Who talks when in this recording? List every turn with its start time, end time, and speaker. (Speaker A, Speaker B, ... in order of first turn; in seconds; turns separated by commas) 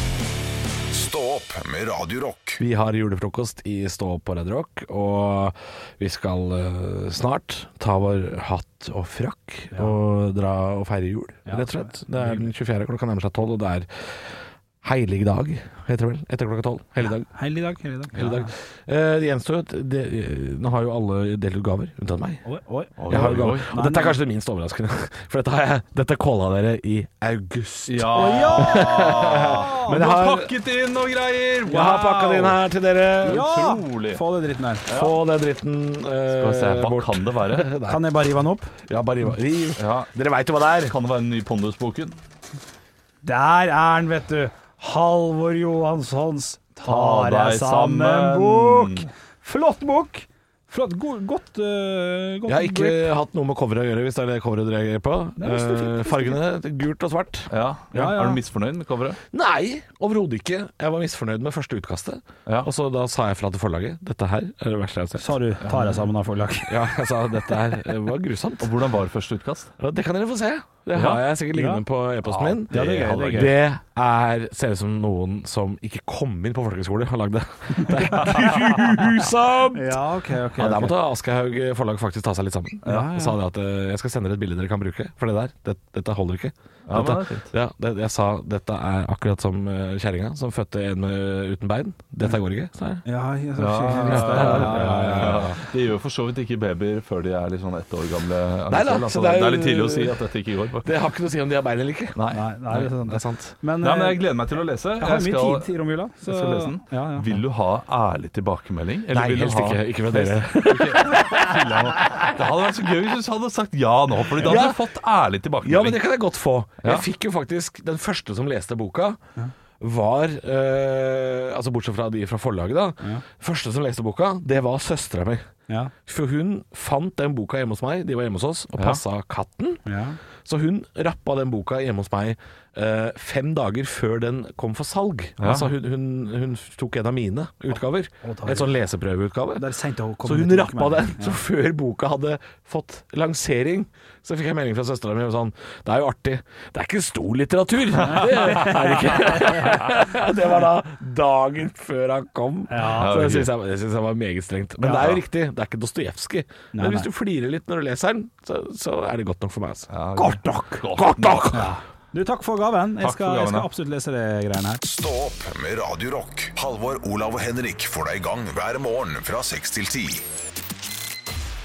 Speaker A: 0.9-2.6, Speaker B: 2.6-17.3, Speaker C: 11.4-12.4, Speaker C: 17.3-18.5, Speaker B: 18.1-22.4, Speaker C: 22.4-24.2, Speaker D: 23.0-23.7, Speaker B: 23.1-30.5, Speaker D: 27.9-32.6, Speaker C: 28.1-29.9, Speaker B: 31.7-33.5, Speaker D: 33.2-34.2, Speaker C: 33.3-34.9, Speaker B: 34.9-38.1, Speaker D: 36.3-37.7, Speaker C: 37.9-38.7, Speaker B: 38.9-41.0, Speaker D: 39.8-40.1, Speaker D: 40.9-42.2, Speaker C: 43.2-53.0, Speaker D: 46.8-49.1, Speaker B: 52.5-57.5, Speaker C: 55.4-56.4, Speaker D: 57.5-59.2, Speaker C: 57.9-58.4, Speaker B: 59.3-65.4, Speaker C: 65.2-66.9, Speaker D: 65.6-66.0, Speaker B: 66.7-68.8, Speaker D: 68.6-69.7, Speaker B: 69.8-80.0, Speaker D: 70.9-71.2, Speaker C: 71.5-71.8, Speaker D: 72.3-73.5, Speaker C: 72.7-73.5, Speaker C: 77.7-78.1, Speaker D: 78.1-78.8, Speaker C: 79.7-81.0, Speaker B: 80.5-93.0, Speaker C: 82.9-83.4, Speaker D: 86.9-87.5, Speaker C: 93.0-95.5, Speaker D: 93.6-100.9, Speaker B: 94.0-95.6, Speaker B: 98.7-100.2, Speaker B: 100.8-102.2, Speaker D: 102.2-102.9, Speaker C: 102.3-104.2, Speaker B: 103.1-103.5, Speaker D: 103.8-116.0, Speaker C: 105.0-107.4, Speaker B: 109.1-112.2, Speaker B: 114.3-114.8, Speaker B: 115.6-119.2, Speaker B: 119.8-125.5, Speaker B: 126.0-129.8, Speaker C: 129.8-130.2, Speaker B: 130.4-139.7, Speaker D: 135.4-135.7, Speaker C: 138.2-138.7, Speaker C: 139.6-141.4, Speaker B: 140.2-159.9, Speaker C: 148.1-149.4, Speaker D: 148.1-148.6, Speaker C: 152.7-153.3, Speaker D: 152.9-153.5, Speaker C: 154.8-155.2, Speaker C: 156.7-157.1, Speaker D: 159.9-161.6, Speaker C: 160.2-160.8, Speaker B: 160.9-161.7, Speaker C: 161.5-164.8, Speaker D: 163.0-163.7, Speaker A: 164.8-170.2